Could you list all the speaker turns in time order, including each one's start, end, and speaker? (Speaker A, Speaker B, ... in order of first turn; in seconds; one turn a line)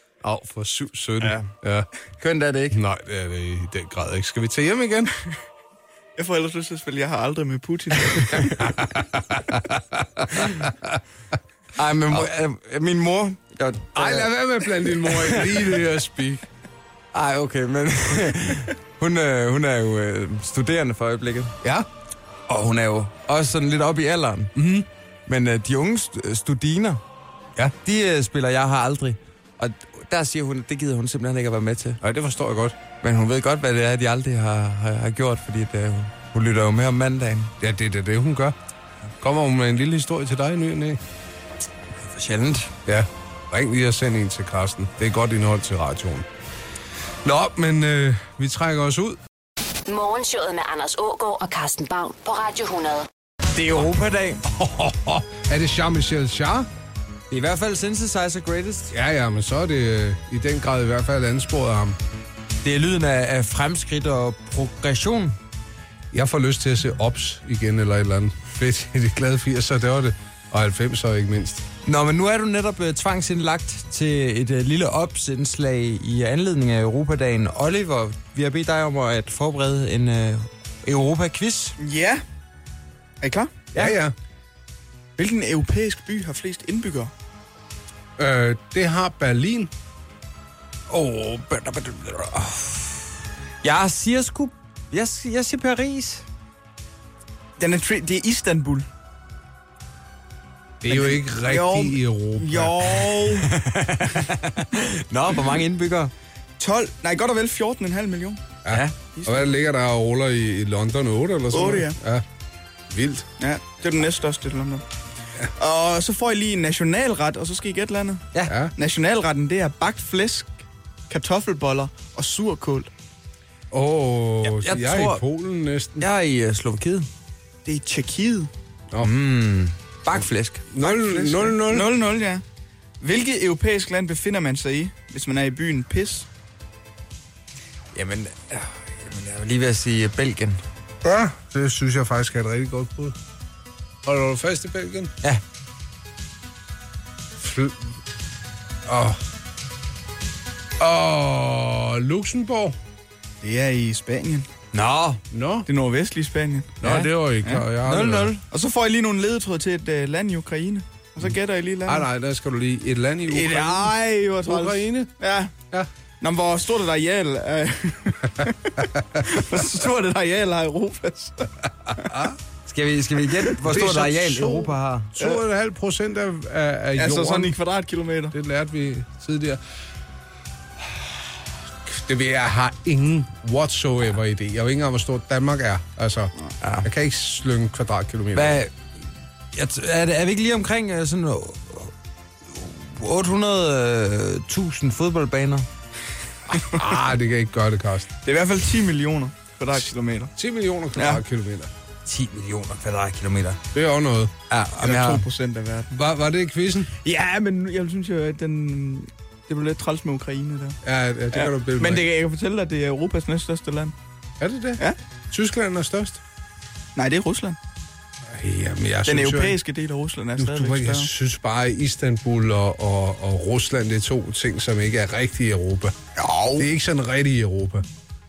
Speaker A: 0.2-1.9
Speaker B: 1.2-1.5
Speaker B: 2.2-2.8
Speaker A: 2.7-5.2
Speaker C: 6.2-8.7
Speaker A: 8.3-11.0
Speaker B: 11.8-15.7
Speaker A: 13.9-16.5
Speaker B: 17.1-21.5
Speaker A: 21.6-21.9
Speaker B: 22.5-24.5
Speaker A: 24.6-24.9
Speaker B: 25.3-27.0
Speaker B: 27.8-32.0
Speaker A: 32.0-32.8
Speaker B: 33.0-37.5
Speaker A: 37.6-38.5
Speaker A: 39.2-41.0
Speaker B: 42.0-42.7
Speaker A: 42.9-46.3
Speaker A: 47.2-49.2
Speaker D: 49.9-53.1
Speaker B: 53.5-54.5
Speaker A: 54.5-56.7
Speaker B: 57.3-58.9
Speaker A: 58.9-62.0
Speaker B: 62.6-65.4
Speaker A: 66.1-71.6
Speaker B: 71.8-81.8
Speaker C: 81.8-82.2
Speaker C: 83.2-83.7
Speaker B: 83.7-84.0
Speaker A: 83.8-84.2
Speaker C: 85.2-87.1
Speaker A: 88.2-89.7
Speaker B: 90.9-93.0
Speaker B: 93.6-96.2
Speaker C: 97.6-98.9
Speaker A: 100.8-103.2
Speaker C: 100.9-103.5
Speaker B: 103.4-106.1
Speaker C: 106.6-108.5
Speaker A: 108.6-112.2
Speaker B: 108.7-109.0
Speaker C: 111.5-112.0
Speaker A: 112.9-113.3
Speaker C: 113.4-114.8
Speaker C: 115.6-122.9
Speaker A: 118.5-118.7
Speaker A: 123.7-126.1
Speaker B: 124.4-125.2
Speaker B: 126.0-127.1
Speaker C: 127.7-128.5
Speaker B: 129.0-130.7
Speaker A: 130.7-131.9
Speaker C: 130.8-132.4
Speaker C: 133.0-136.3
Speaker B: 137.9-140.6
Speaker A: 141.0-143.2
Speaker A: 144.1-145.1
Speaker A: 147.4-147.8
Speaker A: 148.9-149.2
Speaker A: 150.8-152.8
Speaker C: 153.4-154.5
Speaker B: 154.7-155.2
Speaker A: 155.3-155.7
Speaker C: 155.7-156.8
Speaker A: 156.8-158.3
Speaker B: 156.8-157.1
Speaker B: 157.8-158.4
Speaker C: 158.4-162.1
Speaker A: 161.9-165.1
Speaker C: 163.3-165.5
Speaker C: 166.2-172.1
Speaker A: 172.0-172.4
Speaker B: 172.7-175.2
Speaker A: 173.5-177.6
Speaker C: 177.0-178.4
Speaker A: 178.3-179.6
Speaker A: 181.9-188.6
Speaker B: 186.6-186.9
Speaker B: 188.3-188.7
Speaker B: 189.5-191.9
Speaker B: 192.4-195.7
Speaker A: 196.5-198.1
Speaker C: 198.2-200.3
Speaker A: 200.4-201.7
Speaker C: 201.0-201.2
Speaker B: 202.1-203.6
Speaker A: 203.7-204.3
Speaker B: 204.5-205.2
Speaker C: 204.8-206.0
Speaker A: 205.9-206.9
Speaker B: 207.0-207.6
Speaker C: 207.5-210.8
Speaker A: 210.8-212.1
Speaker C: 211.3-213.9
Speaker A: 214.4-216.2
Speaker C: 217.0-217.6
Speaker A: 218.3-219.6
Speaker C: 219.1-221.1
Speaker A: 220.4-225.9
Speaker C: 226.2-226.7
Speaker A: 226.6-227.8